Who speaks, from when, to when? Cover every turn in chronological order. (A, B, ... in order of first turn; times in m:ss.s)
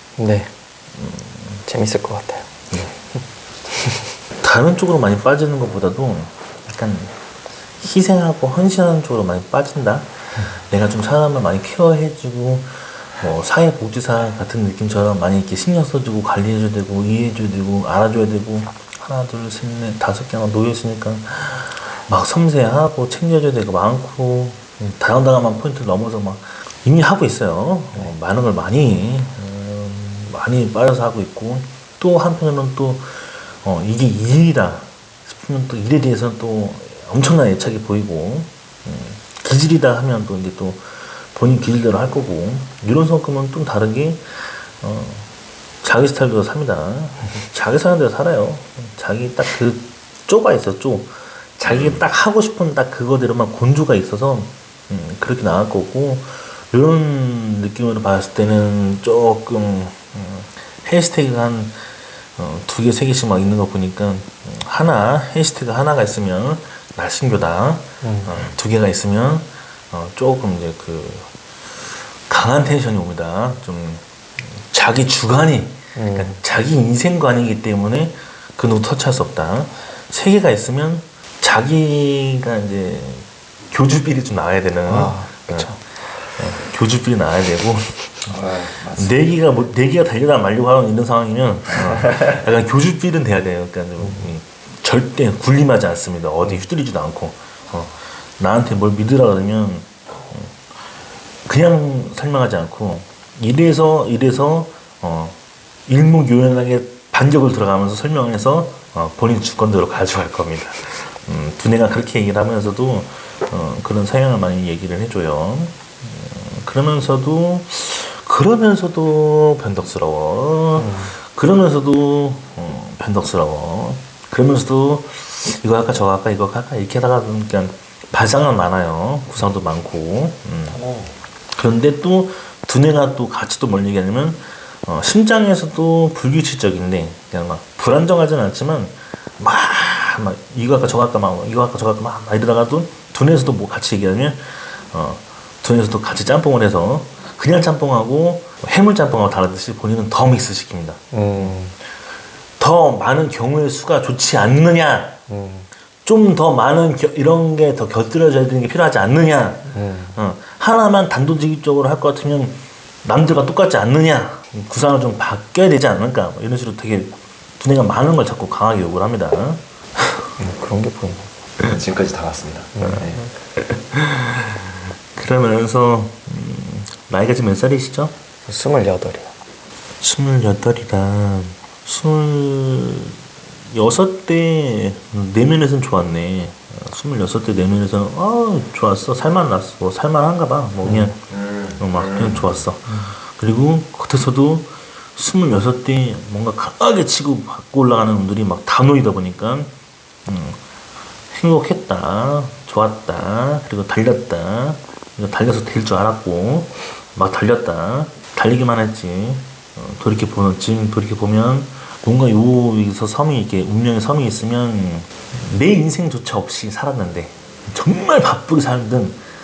0:00.2-0:00.5 A
0:01.0-0:01.6 B
0:01.7-0:02.4 A
0:02.7-0:03.0 B
0:04.4-0:07.2 B
0:07.8-0:45.3 B
0:45.8-1:11.3 B
1:12.2-1:25.7 B
1:15.9-1:16.4 A
1:24.9-1:25.8 A
1:26.4-1:40.6 B
1:28.3-1:29.1 C
1:41.4-2:10.9 B
2:00.8-2:01.0 A
2:11.5-2:31.6 B
2:31.1-2:31.4 A
2:31.4-2:31.7 C
2:32.6-2:35.2 B
2:35.3-2:35.6 C
2:36.0-2:49.6 B
2:50.4-2:51.3 A
2:51.6-2:53.2 C
2:52.7-2:53.1 A
2:53.9-2:54.5 B
2:55.1-2:58.1 B
2:58.5-2:59.3 A
3:00.0-3:03.2 B
3:03.7-3:19.7 B
3:10.8-3:11.1 A
3:20.2-3:20.6 B
3:21.3-3:39.2 B